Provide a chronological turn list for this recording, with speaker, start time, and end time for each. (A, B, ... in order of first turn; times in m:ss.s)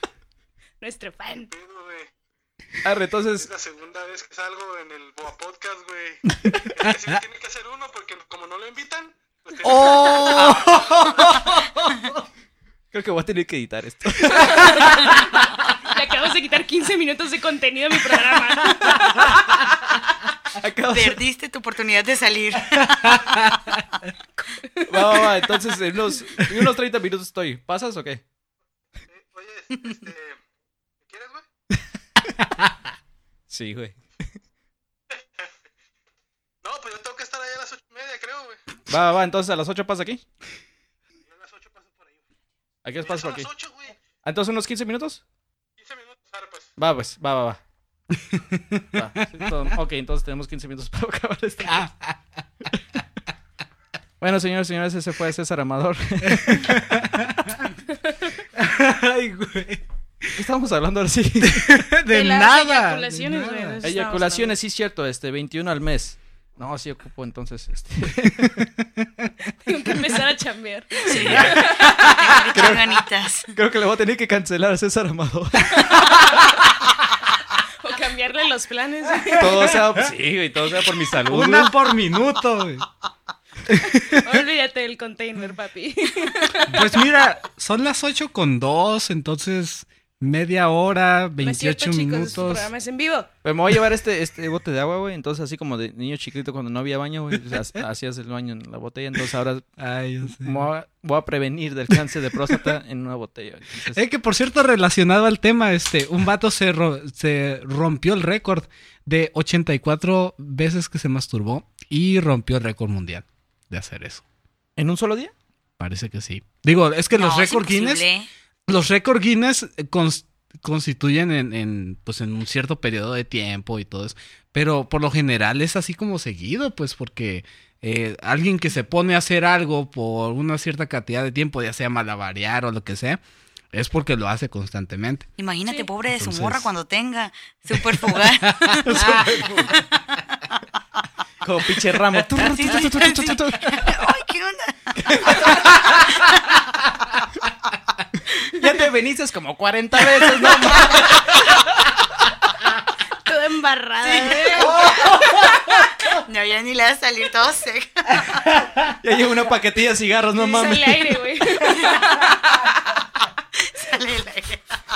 0:00.8-0:01.5 A
0:01.5-0:02.1 B
0:02.8-0:03.5 C
0:03.3-0:06.2 B
0:06.4-0:07.1 D
0:06.7-0:11.2 B
0:09.6-0:12.2 D
0:12.9-0:14.9 C
0:14.3-0:19.3 A
0:14.4-0:15.5 D
0:18.8-0:19.5 D
0:20.5-0:21.2 C
0:20.9-0:23.1 E
0:22.7-0:23.9 D
0:24.4-0:25.3 A
0:24.9-0:28.2 C
0:29.1-0:30.4 B
0:31.0-0:31.4 B
0:33.5-0:34.4 C
0:35.1-0:35.5 B
0:36.6-0:38.6 B
0:38.9-0:40.2 C
0:41.2-0:42.2 B
0:42.8-0:43.5 C
0:43.0-0:44.1 B
0:44.2-0:45.2 C
0:45.8-0:46.8 B
0:46.8-0:47.6 C
0:48.3-0:49.7 D
0:48.9-0:51.9 C
0:51.6-0:52.2 D
0:54.2-0:56.9 C
0:56.2-0:57.7 D
0:57.9-0:58.2 A
0:58.5-1:00.3 D
1:00.3-1:01.8 C
1:01.4-1:03.8 D
1:02.1-1:04.5 A
1:03.8-1:08.7 C
1:08.4-1:09.3 D
1:09.6-1:12.4 A
1:11.1-1:13.5 E
1:11.2-1:11.6 C
1:11.6-1:12.2 D
1:12.5-1:13.0 C
1:13.5-1:16.3 C
1:15.8-1:16.6 A
1:17.7-1:19.8 A
1:19.2-1:20.1 D
1:19.3-1:21.7 C
1:21.2-1:22.8 D
1:23.7-1:24.4 D
1:23.9-1:27.1 A
1:26.7-1:32.7 D
1:31.4-1:33.3 A
1:33.4-1:39.6 C
1:37.5-1:37.8 D
1:39.8-1:40.7 D
1:40.3-1:44.0 C
1:42.5-1:42.7 D
1:43.9-1:54.2 D
1:54.8-1:55.3 C
1:55.8-1:58.0 D
1:57.1-1:58.3 E
1:58.7-2:13.2 D
2:13.7-2:15.3 D
2:15.4-2:19.1 E
2:16.1-2:16.7 D
2:18.0-2:19.7 D
2:18.8-2:19.8 C
2:21.4-2:23.9 C
2:22.2-2:22.9 D
2:22.4-2:25.5 E
2:25.0-2:25.7 C
2:25.5-2:26.1 D
2:28.4-2:31.4 C
2:33.2-2:34.9 A
2:34.0-2:35.1 E
2:34.6-2:36.1 D
2:36.1-2:38.3 E
2:38.1-2:38.9 D
2:39.0-2:41.1 C
2:40.3-2:42.9 A
2:43.6-2:44.6 E